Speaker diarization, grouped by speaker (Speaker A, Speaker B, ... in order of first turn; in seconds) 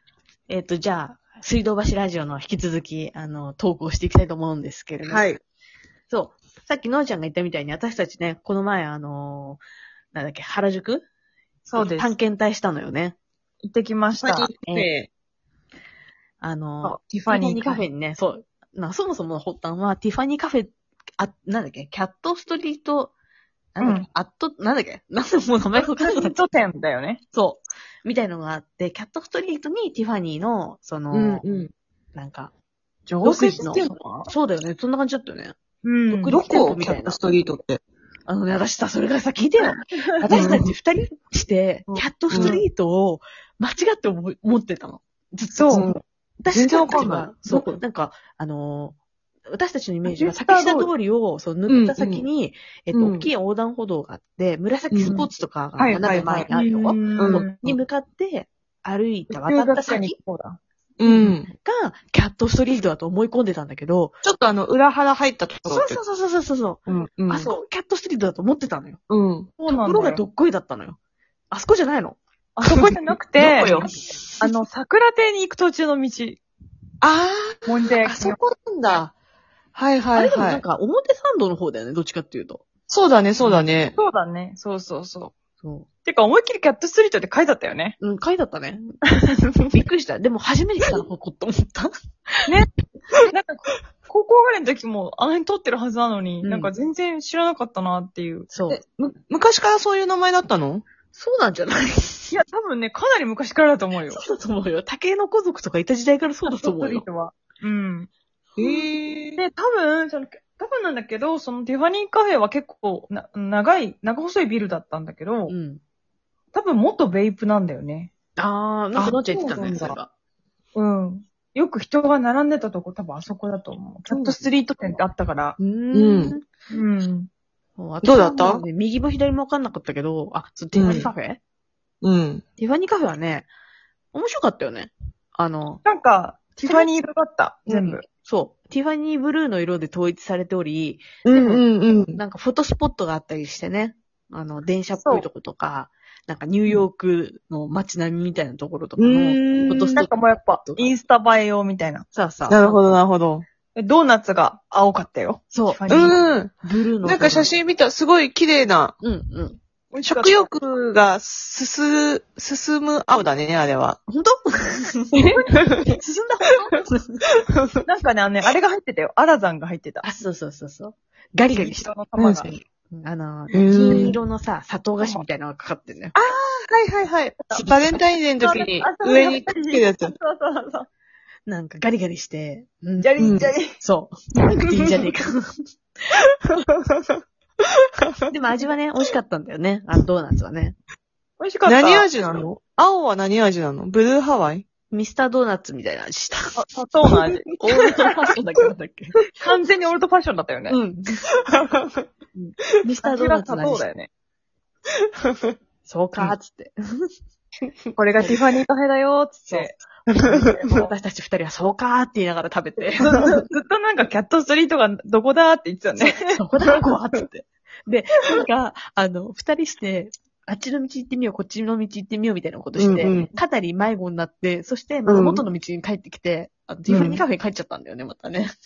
Speaker A: 0.5-5.3, 6.1-9.6, 10.1-11.1, 11.8-13.2, 16.4-23.1, 23.8-26.4, 27.3-31.4, 32.1-32.5, 33.2-35.5, 36.1-37.2, 38.3-45.9, 46.4-49.0, 49.5-60.1, 61.0-64.2, 65.7-69.0, 69.7-71.0, 71.5-72.2, 73.5-74.0, 80.2-82.6, 85.6-85.9, 88.0-88.9, 89.7-91.9, 96.4-96.7, 98.5-98.8, 101.1-102.3, 104.1-107.1, 115.5-115.8, 118.4-120.1, 125.6-126.5, 127.8-131.4, 132.6-133.5, 134.1-135.8, 138.1-150.9, 152.1-152.8, 155.5-156.0, 156.6-157.5, 159.0-159.6, 164.1-167.2, 170.0-171.9, 172.9-176.1, 181.5-183.1, 183.8-185.7, 188.3-190.8, 194.9-196.6, 197.6-199.2, 200.7-201.2, 202.3-203.8, 205.8-207.1, 209.5-213.2, 216.0-228.5
Speaker B: 5.0-5.4, 11.7-12.1, 14.2-15.1, 31.1-31.7, 33.1-33.9, 36.3-37.8, 40.3-40.7, 41.9-42.6, 45.7-46.0, 46.5-47.7, 51.7-52.3, 52.9-53.3, 54.9-55.3, 56.0-56.5, 57.2-57.8, 61.0-61.5, 64.2-66.0, 66.9-67.5, 69.1-69.5, 72.7-74.5, 77.0-79.1, 79.8-80.6, 82.9-83.9, 98.7-100.9, 108.6-109.4, 119.0-120.0, 124.1-124.4, 125.9-126.3, 128.0-128.6, 130.7-131.1, 132.0-132.4, 136.6-136.9, 141.2-142.2, 149.0-150.0, 152.5-153.4, 155.9-158.9, 160.0-164.0, 167.5-167.8, 172.2-172.6, 173.5-174.2, 176.1-180.1, 183.2-183.5, 191.7-194.7, 201.5-202.0, 210.1-210.5, 222.8-223.3, 225.1-225.4, 226.9-227.2
Speaker C: 11.7-12.0, 13.6-14.5, 16.8-17.9, 23.8-24.1, 25.8-27.2, 33.2-34.3, 35.8-36.4, 39.6-40.6, 42.3-42.6, 45.5-45.9, 50.0-50.9, 55.0-57.7, 59.3-60.6, 69.6-70.2, 72.6-73.9, 74.4-76.4, 77.7-78.4, 83.5-85.3, 86.1-88.0, 89.1-89.4, 93.2-98.5, 102.3-104.2, 106.5-108.1, 108.6-115.5, 116.5-118.1, 119.3-119.7, 120.8-125.6, 126.7-127.3, 135.8-138.0, 145.0-145.3, 149.9-152.1, 153.8-156.2, 159.9-160.5, 165.1-165.5, 167.8-170.0, 171.5-172.5, 178.4-180.9, 183.0-183.8, 191.4-192.1, 196.5-197.6, 199.4-200.8, 203.0-204.1, 207.9-209.7, 210.5-210.9, 212.9-216.4